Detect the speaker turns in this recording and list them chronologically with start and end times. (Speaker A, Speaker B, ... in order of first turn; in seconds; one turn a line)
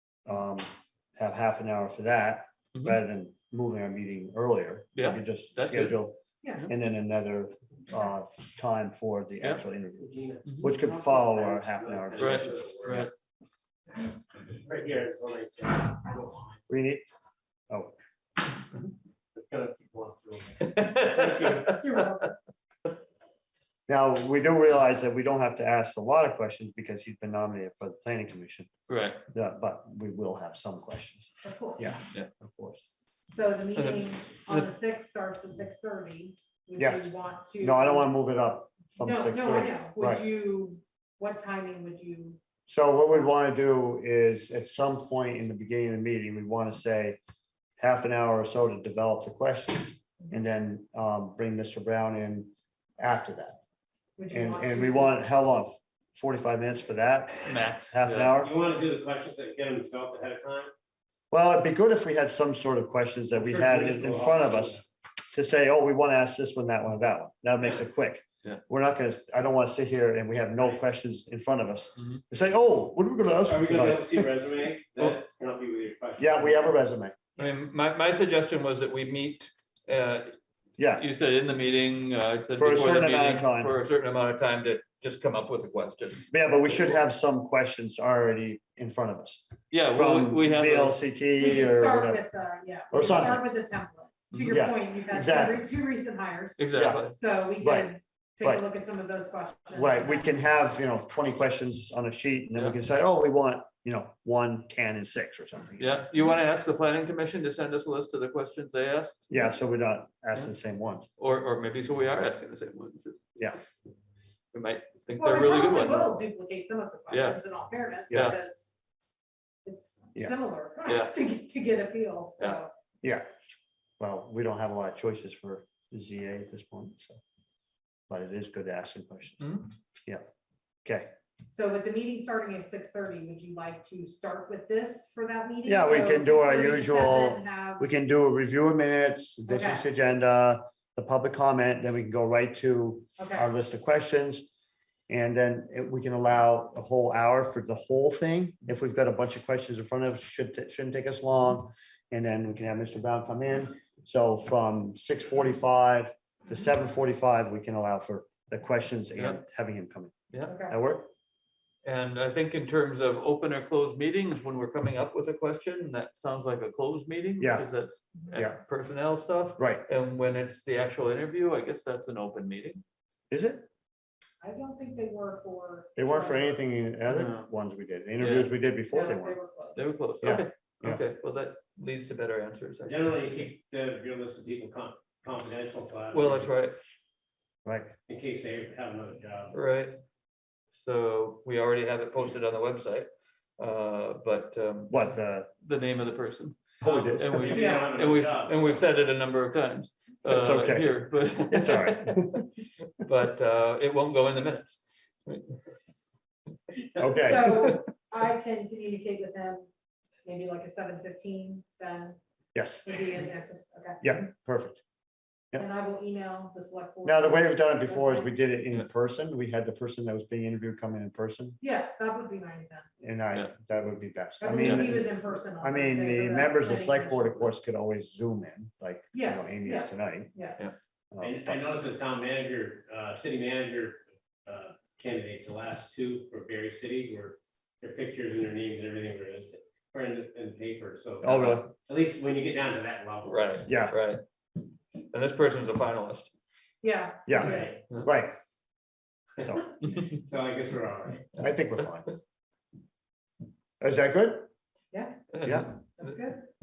Speaker A: 0.2-12.5
Speaker B: 4.9-6.0
Speaker C: 10.0-13.1
Speaker B: 12.2-13.1
Speaker C: 14.5-16.6
Speaker A: 16.7-17.1
Speaker C: 19.4-21.8
Speaker B: 20.6-22.1
Speaker D: 21.7-22.3
Speaker A: 23.9-28.7
Speaker B: 28.9-29.2
Speaker A: 29.3-32.9
Speaker D: 31.4-31.9
Speaker D: 33.2-38.1
Speaker B: 33.7-34.7
Speaker A: 36.8-37.1
Speaker A: 37.6-40.2
Speaker D: 39.0-42.4
Speaker A: 42.7-47.2
Speaker A: 47.8-53.6
Speaker D: 54.2-55.2
Speaker A: 54.3-58.5
Speaker B: 57.5-58.4
Speaker C: 58.4-60.7
Speaker A: 61.3-74.2
Speaker C: 63.3-64.8
Speaker C: 73.5-76.7
Speaker A: 76.2-77.2
Speaker B: 77.4-80.4
Speaker A: 80.8-81.0
Speaker B: 80.9-86.3
Speaker A: 82.5-83.7
Speaker A: 86.3-92.2
Speaker B: 89.7-91.0
Speaker D: 91.4-100.3
Speaker A: 92.9-93.4
Speaker A: 94.5-95.6
Speaker B: 96.6-97.2
Speaker A: 96.7-97.0
Speaker A: 97.6-98.6
Speaker A: 99.8-106.1
Speaker B: 105.8-109.3
Speaker A: 109.3-111.1
Speaker B: 111.2-113.2
Speaker A: 113.4-113.6
Speaker B: 114.5-116.1
Speaker D: 115.2-118.7
Speaker B: 117.1-117.4
Speaker B: 118.1-118.4
Speaker D: 119.6-122.7
Speaker B: 120.9-121.1
Speaker A: 124.0-127.2
Speaker A: 128.1-130.2
Speaker A: 130.8-131.1
Speaker D: 131.5-137.9
Speaker A: 135.7-144.5
Speaker D: 139.5-139.8
Speaker D: 143.2-143.5
Speaker A: 145.1-160.1
Speaker B: 160.3-160.6
Speaker D: 160.5-160.7
Speaker A: 160.7-161.1
Speaker B: 161.8-172.8
Speaker A: 167.4-167.7
Speaker A: 169.6-169.8
Speaker A: 173.3-173.7
Speaker D: 174.4-176.7
Speaker A: 176.0-179.4
Speaker B: 177.1-177.5
Speaker B: 178.2-178.5
Speaker D: 178.9-179.9
Speaker B: 179.8-183.1
Speaker A: 180.2-181.0
Speaker C: 182.9-186.5
Speaker B: 186.1-186.8
Speaker A: 187.7-187.9
Speaker C: 188.1-189.6
Speaker B: 189.5-190.0
Speaker B: 190.8-193.1
Speaker B: 193.6-202.5
Speaker A: 194.9-195.5
Speaker A: 196.8-197.4
Speaker C: 196.8-198.8
Speaker D: 197.5-197.9
Speaker A: 200.3-202.5
Speaker B: 203.0-205.6
Speaker B: 206.7-207.8
Speaker A: 207.0-207.8
Speaker D: 207.2-209.7
Speaker D: 210.2-212.2
Speaker A: 212.6-213.0
Speaker D: 212.8-214.1
Speaker A: 214.0-214.8
Speaker D: 215.6-218.3
Speaker A: 217.1-221.6
Speaker D: 221.6-222.9
Speaker A: 223.0-230.3
Speaker D: 224.4-227.5
Speaker B: 224.6-224.8
Speaker D: 229.1-230.6
Speaker A: 231.1-231.6
Speaker C: 231.2-243.7
Speaker A: 241.2-241.7
Speaker B: 243.3-244.2
Speaker A: 243.7-244.0
Speaker B: 245.1-246.3
Speaker D: 246.8-247.8
Speaker A: 247.3-248.3
Speaker C: 247.4-247.8
Speaker A: 249.4-249.7
Speaker C: 250.0-251.3
Speaker A: 251.4-252.2
Speaker A: 253.8-254.5
Speaker D: 254.9-255.2
Speaker B: 255.3-256.1
Speaker A: 255.4-255.7
Speaker D: 255.9-256.4